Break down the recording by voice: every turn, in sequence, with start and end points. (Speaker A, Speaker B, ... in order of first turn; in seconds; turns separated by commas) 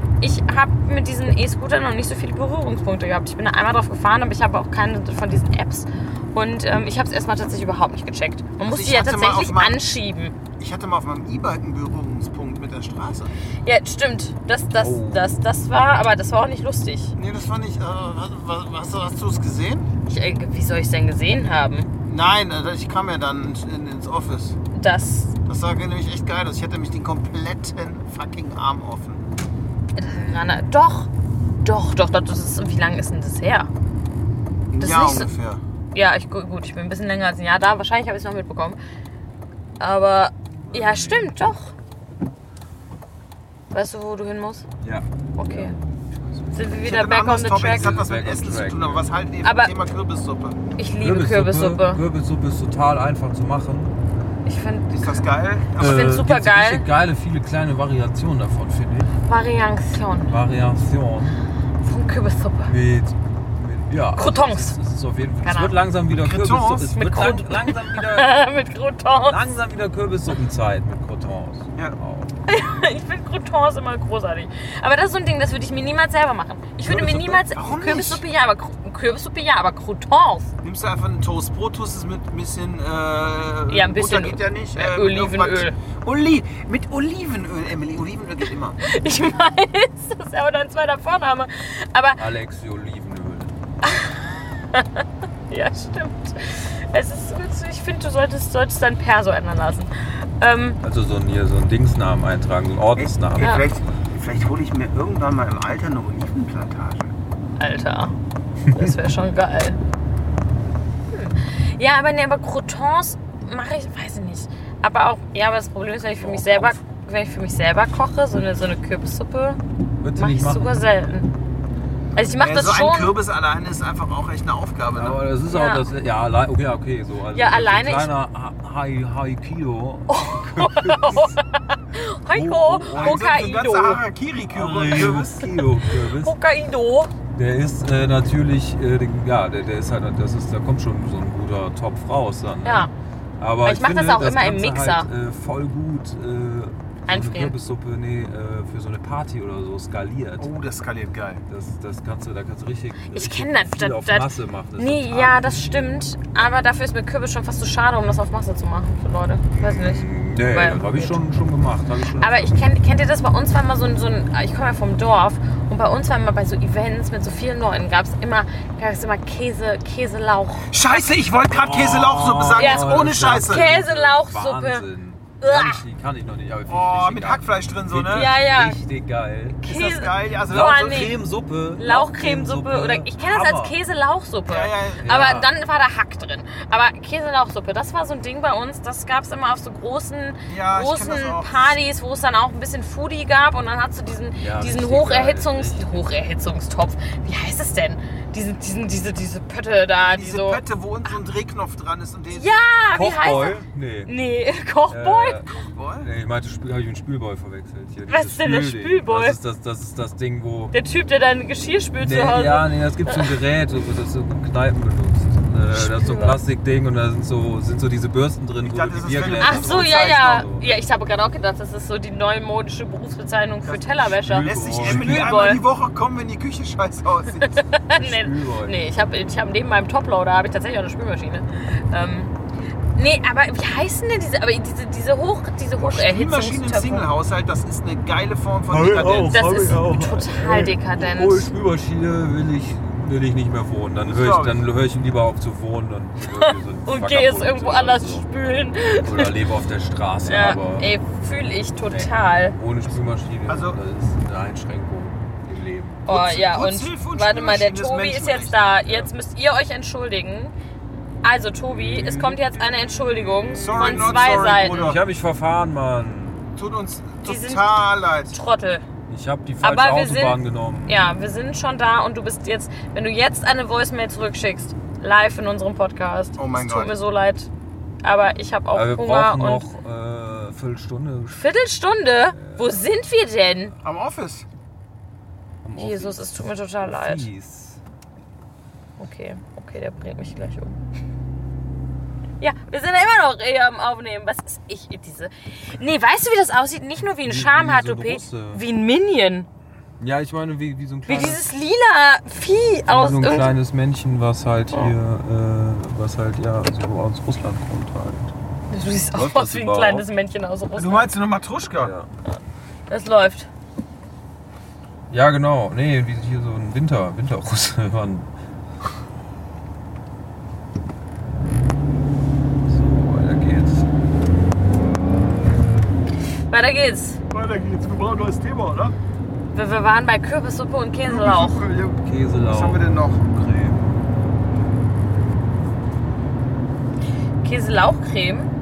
Speaker A: 0.2-10.3, Speaker B: 8.6-9.8, Speaker B: 10.6-13.3, Speaker A: 13.7-17.1, Speaker C: 14.9-15.1, Speaker B: 17.2-19.9, Speaker A: 20.1-21.9, Speaker B: 22.1-24.6, Speaker A: 24.7-25.4, Speaker B: 25.5-29.2, Speaker A: 30.0-31.1, Speaker A: 31.6-33.7, Speaker B: 34.7-35.6, Speaker A: 34.8-35.3, Speaker A: 35.9-38.8, Speaker A: 39.8-41.7, Speaker C: 40.6-41.4, Speaker A: 43.7-44.6, Speaker C: 44.8-46.5, Speaker A: 45.4-45.8, Speaker A: 46.5-47.9, Speaker B: 46.7-50.6, Speaker C: 47.7-49.1, Speaker A: 49.4-49.7, Speaker A: 50.8-52.0, Speaker C: 51.0-53.9, Speaker A: 54.5-55.2, Speaker B: 54.9-56.1, Speaker A: 55.8-56.8, Speaker C: 55.8-59.1, Speaker A: 59.3-60.4, Speaker C: 60.3-61.4, Speaker A: 61.8-62.7, Speaker C: 62.7-68.3, Speaker A: 64.2-64.8, Speaker A: 65.4-65.8, Speaker B: 66.1-67.0, Speaker A: 67.0-69.5, Speaker C: 69.3-72.3, Speaker A: 72.5-80.5, Speaker C: 76.9-77.4, Speaker B: 77.1-78.2, Speaker B: 80.6-88.8, Speaker A: 83.7-85.8, Speaker A: 88.8-92.2, Speaker C: 92.2-93.5, Speaker A: 93.8-100.8, Speaker C: 100.8-103.6, Speaker B: 103.0-107.1, Speaker A: 103.4-103.7, Speaker A: 107.6-108.2, Speaker C: 108.7-108.9, Speaker A: 108.7-109.8, Speaker A: 111.1-119.6, Speaker C: 116.0-116.8, Speaker C: 120.0-120.7, Speaker A: 120.2-121.3, Speaker A: 122.2-123.2, Speaker B: 122.4-125.2, Speaker C: 125.0-131.4, Speaker A: 125.5-125.8, Speaker A: 127.3-128.1, Speaker A: 130.1-134.0, Speaker C: 132.3-133.3, Speaker B: 132.9-135.5, Speaker C: 134.5-136.3, Speaker A: 136.0-137.1, Speaker C: 137.3-150.5, Speaker A: 142.7-142.9, Speaker A: 143.6-145.1, Speaker A: 147.1-147.6, Speaker B: 150.4-151.4, Speaker C: 151.5-155.9, Speaker A: 153.1-161.2, Speaker C: 159.5-162.6, Speaker A: 162.2-170.8, Speaker B: 170.7-173.7, Speaker C: 171.4-179.6, Speaker A: 172.6-174.8, Speaker A: 175.4-175.8, Speaker B: 176.7-178.3, Speaker A: 178.1-178.8, Speaker A: 179.6-181.2, Speaker B: 179.6-181.1, Speaker C: 180.5-183.7, Speaker A: 181.8-200.6, Speaker B: 184.5-185.0, Speaker C: 185.0-185.5, Speaker B: 190.5-191.8, Speaker C: 194.4-196.1, Speaker B: 200.0-202.6, Speaker A: 202.3-205.4, Speaker C: 202.9-204.1, Speaker C: 204.9-205.5, Speaker B: 205.5-206.1, Speaker C: 206.0-210.7, Speaker A: 208.1-209.4, Speaker A: 210.7-213.3, Speaker C: 212.0-220.7, Speaker A: 215.7-216.4, Speaker B: 218.6-220.2, Speaker A: 219.4-225.6, Speaker B: 223.7-227.6, Speaker C: 224.0-225.4, Speaker A: 227.4-232.3, Speaker C: 227.9-228.8, Speaker A: 233.0-237.1, Speaker B: 235.8-239.4, Speaker C: 238.7-248.3, Speaker A: 239.3-241.5, Speaker B: 244.1-244.7, Speaker A: 246.3-249.3, Speaker C: 248.9-250.9, Speaker A: 250.3-252.6, Speaker C: 251.9-256.1, Speaker B: 253.5-253.8, Speaker A: 256.1-260.5, Speaker B: 256.1-258.6, Speaker C: 258.8-259.1, Speaker A: 261.2-264.9, Speaker C: 261.7-266.4, Speaker B: 263.6-265.0, Speaker B: 266.6-268.4, Speaker A: 267.2-268.9, Speaker C: 269.1-271.0, Speaker A: 269.6-277.5, Speaker B: 276.4-276.9, Speaker A: 278.0-279.7, Speaker C: 278.7-281.5, Speaker A: 281.4-283.7, Speaker C: 282.3-283.0, Speaker B: 283.8-284.5, Speaker C: 285.6-287.8, Speaker A: 285.8-287.3, Speaker A: 289.0-290.8, Speaker A: 292.4-299.5, Speaker C: 297.2-298.6, Speaker C: 300.0-301.5, Speaker A: 301.1-303.5, Speaker C: 302.9-308.3, Speaker A: 308.7-311.1, Speaker C: 309.1-310.1, Speaker B: 310.8-311.9, Speaker C: 311.8-312.1, Speaker A: 312.9-313.5, Speaker C: 315.1-318.3, Speaker C: 322.7-323.9, Speaker A: 326.5-327.2, Speaker B: 327.3-328.9, Speaker A: 329.5-331.7, Speaker B: 331.1-333.2, Speaker C: 332.0-334.0, Speaker A: 337.4-338.5